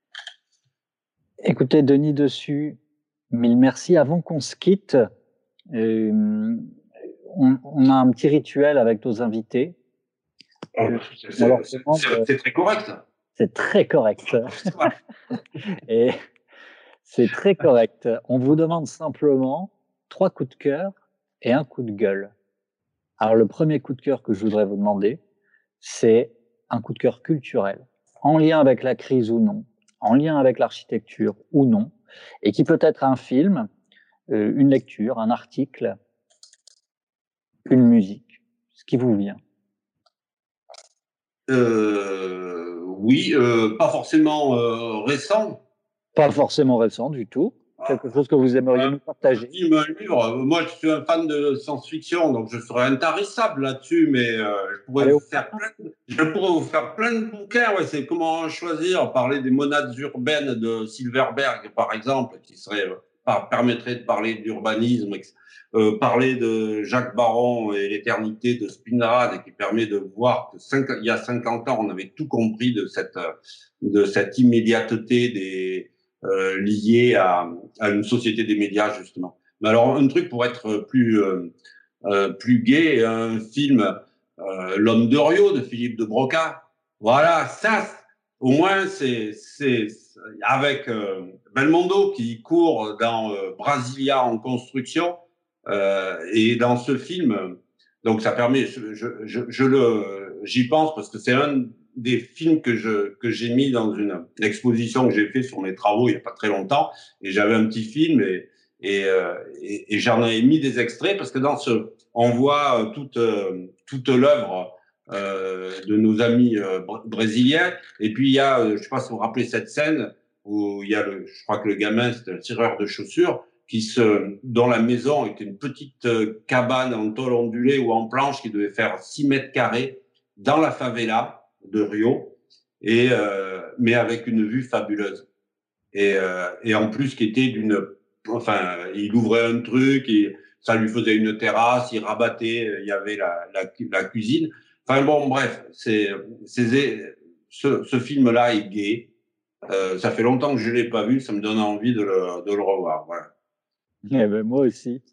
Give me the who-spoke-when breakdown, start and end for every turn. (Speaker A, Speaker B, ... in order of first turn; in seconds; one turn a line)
Speaker A: 1.4-2.8
Speaker A: 3.3-5.0
Speaker A: 5.7-6.7
Speaker A: 7.3-9.8
Speaker B: 10.8-13.0
Speaker A: 10.8-12.2
Speaker A: 13.3-14.9
Speaker B: 14.5-14.9
Speaker A: 15.7-16.1
Speaker A: 17.0-22.3
Speaker A: 23.2-25.2
Speaker A: 25.8-33.7
Speaker A: 34.3-35.9
Speaker A: 37.7-39.4
Speaker B: 41.5-45.6
Speaker A: 46.1-49.5
Speaker B: 47.8-48.1
Speaker B: 48.7-73.3
Speaker B: 73.8-81.5
Speaker B: 82.0-135.3
Speaker B: 135.9-149.1
Speaker B: 149.7-153.3
Speaker A: 154.1-155.0